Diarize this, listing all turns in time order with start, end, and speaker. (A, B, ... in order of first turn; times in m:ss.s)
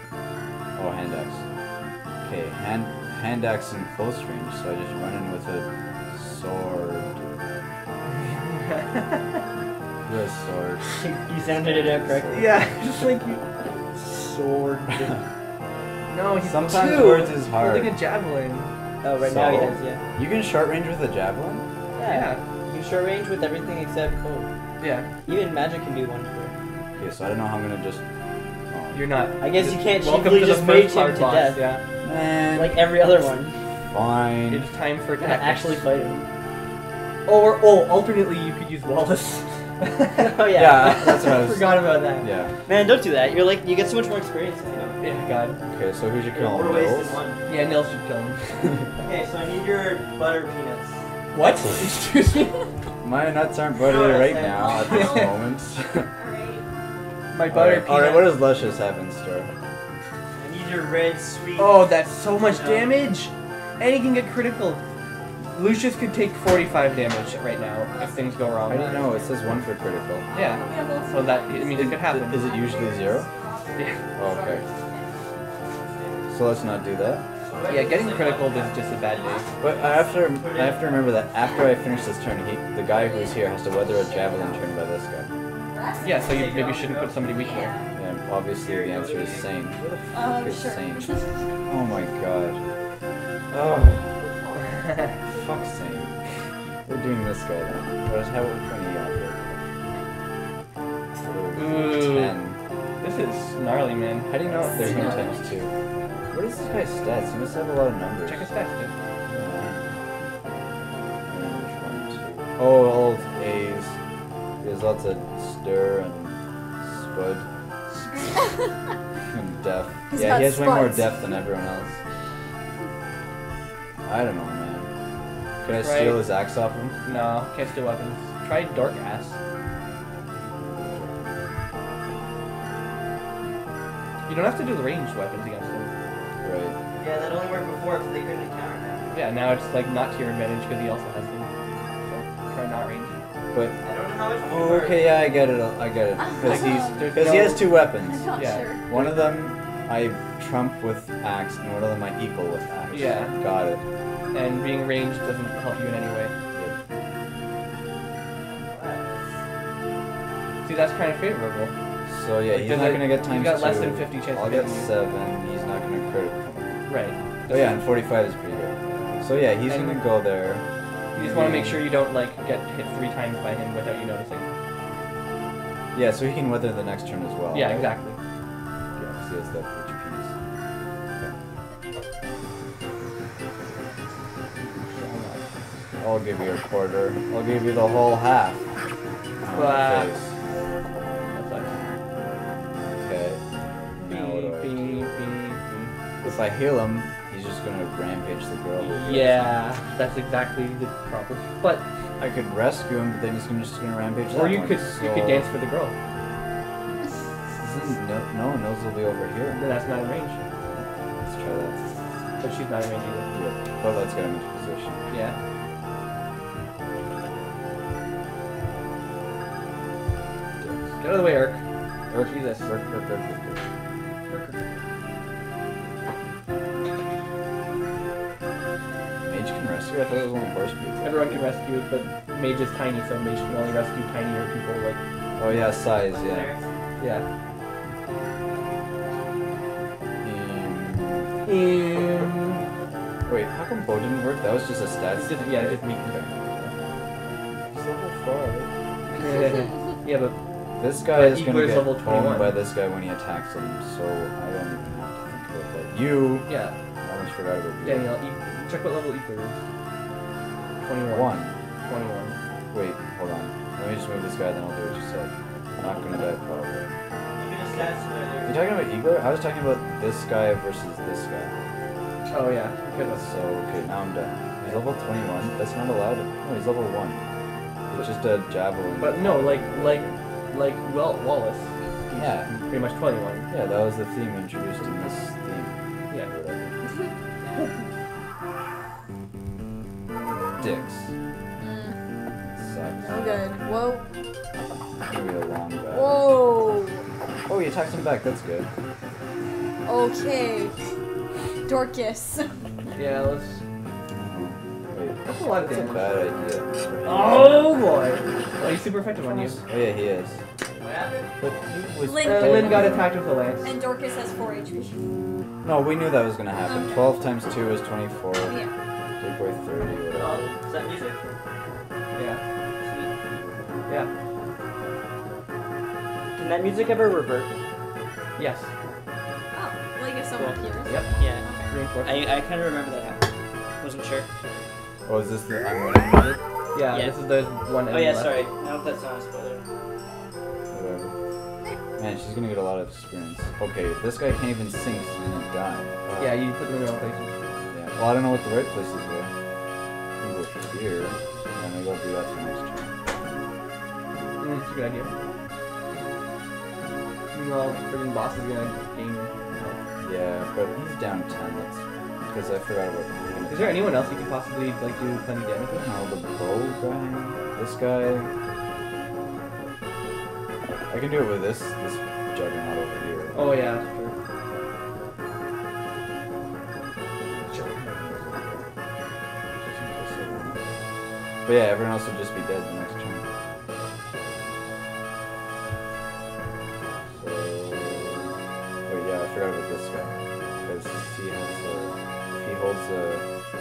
0:00.8-0:01.4 A
0:02.2-0:07.3 A
0:08.2-0:09.4 B
0:10.0-0:10.8 A
0:11.0-0:12.4 C
0:11.6-0:12.6 A
0:12.3-0:13.4 B
0:14.0-0:14.8 B
0:16.1-0:18.7 B
0:16.4-0:18.0 A
0:19.0-0:20.0 C
0:19.2-0:21.6 A
0:22.0-0:24.5 C
0:22.0-0:22.4 B
0:24.8-0:25.1 B
0:25.2-0:26.5 C
0:27.0-0:28.0 A
0:28.7-0:29.1 A
0:28.9-0:31.8 B
0:29.4-0:31.6 C
0:32.0-0:33.0 A
0:32.5-0:33.6 C
0:33.9-0:34.6 A
0:34.5-0:35.8 B
0:35.2-0:36.3 C
0:37.2-0:42.3 B
0:40.2-0:41.4 C
0:40.5-0:42.5 A
0:42.6-0:45.0 C
0:45.0-0:45.6 B
0:45.7-0:47.2 A
0:46.3-0:47.5 C
0:47.5-0:48.4 B
0:49.0-0:51.0 C
0:51.3-0:52.6 B
0:53.0-0:56.1 A
0:53.8-0:55.0 C
0:54.7-0:55.2 D
0:55.0-0:55.2 B
0:56.1-0:56.6 D
0:57.3-0:58.4 B
0:57.5-0:59.5 A
1:00.4-1:03.0 C
1:01.6-1:04.8 B
1:05.4-1:09.1 B
1:07.0-1:09.3 D
1:08.7-1:10.3 A
1:10.3-1:15.2 D
1:10.3-1:12.5 B
1:11.7-1:13.3 A
1:14.2-1:14.6 A
1:16.0-1:16.3 C
1:16.3-1:17.2 A
1:17.4-1:21.2 C
1:17.7-1:19.4 B
1:19.6-1:25.3 A
1:21.4-1:21.7 D
1:22.9-1:24.6 D
1:25.7-1:26.5 D
1:26.0-1:27.8 B
1:26.2-1:27.5 C
1:27.3-1:27.9 D
1:27.9-1:31.1 A
1:28.6-1:29.5 C
1:30.1-1:31.4 D
1:31.7-1:32.6 A
1:33.5-1:34.2 A
1:34.2-1:35.5 D
1:34.8-1:35.1 B
1:35.3-1:36.2 A
1:36.8-1:39.4 A
1:41.2-1:42.6 A
1:41.5-1:42.4 B
1:43.0-1:45.4 B
1:44.7-1:45.7 A
1:44.8-1:45.3 D
1:46.3-1:48.5 A
1:48.2-1:48.9 B
1:49.3-1:49.8 A
1:51.3-1:54.0 A
1:54.6-1:58.1 A
1:59.3-2:02.0 A
2:00.1-2:01.4 D
2:04.0-2:04.9 A
2:05.6-2:07.2 A
2:05.7-2:06.3 B
2:07.0-2:09.4 B
2:10.4-2:11.4 A
2:14.3-2:15.9 B
2:16.4-2:16.8 A
2:17.0-2:19.1 C
2:19.1-2:21.5 B
2:22.0-2:23.1 B
2:23.8-2:25.2 C
2:24.4-2:33.8 A
2:26.2-2:27.2 D
2:26.4-2:27.7 B
2:27.8-2:28.8 D
2:28.3-2:29.3 B
2:32.9-2:33.4 B
2:34.3-2:36.3 B
2:38.5-2:39.4 C
2:40.6-2:41.7 B
2:42.1-2:46.7 A
2:42.5-2:44.9 B
2:46.9-2:47.8 B
2:47.5-2:51.9 A
2:49.7-2:50.1 B
2:51.1-2:54.5 B
2:55.9-2:57.9 A
2:57.5-2:58.2 B
2:59.0-3:00.3 A
3:04.6-3:05.4 B
3:06.0-3:08.6 A
3:09.4-3:10.3 A
3:09.5-3:10.1 B
3:11.3-3:11.7 B
3:13.0-3:13.4 A
3:14.0-3:15.1 A
3:14.0-3:15.9 B
3:16.2-3:19.6 A
3:18.8-3:21.8 B
3:22.2-3:25.5 A
3:24.3-3:25.9 B
3:27.5-3:29.6 A
3:29.5-3:30.4 B
3:30.7-3:31.9 A
3:32.4-3:33.3 B
3:33.3-3:35.0 A
3:35.1-3:35.4 B
3:40.6-3:41.0 A
3:41.0-3:41.6 B
3:42.1-3:43.6 A
3:42.2-3:42.7 B
3:44.3-3:44.6 B
3:49.2-3:51.2 A
3:51.0-3:55.6 B
3:55.4-3:56.5 A
3:55.8-3:56.7 C
3:57.0-3:57.2 B
4:00.2-4:01.3 A
4:01.4-4:02.6 B
4:03.3-4:06.3 A
4:05.1-4:06.7 B
4:07.7-4:08.7 A
4:09.1-4:10.3 B
4:10.8-4:16.5 A
4:11.1-4:12.6 B
4:16.4-4:16.7 B
4:17.0-4:18.1 A
4:17.8-4:19.6 B
4:20.8-4:22.4 B
4:21.0-4:21.6 A
4:22.7-4:26.9 A
4:27.4-4:28.6 C
4:28.4-4:31.5 A
4:32.3-4:33.2 B
4:33.0-4:37.2 A
4:37.9-4:40.2 A
4:39.0-4:43.5 B
4:42.1-4:42.5 A
4:43.5-4:46.8 A
4:50.6-4:51.1 A
4:51.6-4:52.0 D
4:52.4-4:53.3 A
4:53.0-4:54.0 D
4:55.1-4:56.4 A
4:55.9-4:57.0 D
4:57.5-4:58.7 A
4:59.8-5:00.7 D
5:01.6-5:02.5 D
5:02.9-5:03.6 B
5:04.1-5:07.7 A
5:05.2-5:06.1 B
5:07.0-5:09.6 B
5:09.1-5:10.4 A
5:10.8-5:11.3 C
5:11.4-5:13.1 A
5:12.0-5:13.0 D
5:12.2-5:13.7 B
5:13.6-5:15.2 D
5:15.6-5:18.6 A
5:16.6-5:17.2 D
5:18.4-5:18.7 D
5:19.2-5:20.5 A
5:20.2-5:21.2 C
5:22.1-5:22.4 B
5:22.8-5:23.1 C
5:26.4-5:27.5 C
5:28.4-5:28.7 B
5:29.5-5:31.7 D
5:30.8-5:31.1 B
5:31.2-5:31.4 C
5:31.7-5:32.4 B
5:32.0-5:33.2 C
5:33.8-5:34.3 C
5:35.0-5:36.4 A
5:36.7-5:38.5 B
5:36.9-5:37.1 C
5:37.9-5:39.6 C
5:40.7-5:41.1 A
5:42.0-5:46.4 A
5:46.2-5:47.4 B
5:47.7-5:49.3 A
5:50.2-5:52.9 A
5:54.4-5:55.1 B
5:57.3-5:59.8 B
6:00.0-6:04.0 A
6:03.5-6:05.9 B
6:05.7-6:08.3 A
6:10.9-6:13.6 A
6:13.3-6:14.1 B
6:17.2-6:18.6 A
6:17.5-6:17.8 B
6:19.6-6:20.7 A
6:21.4-6:23.2 A
6:27.1-6:28.3 A
6:28.9-6:33.2 A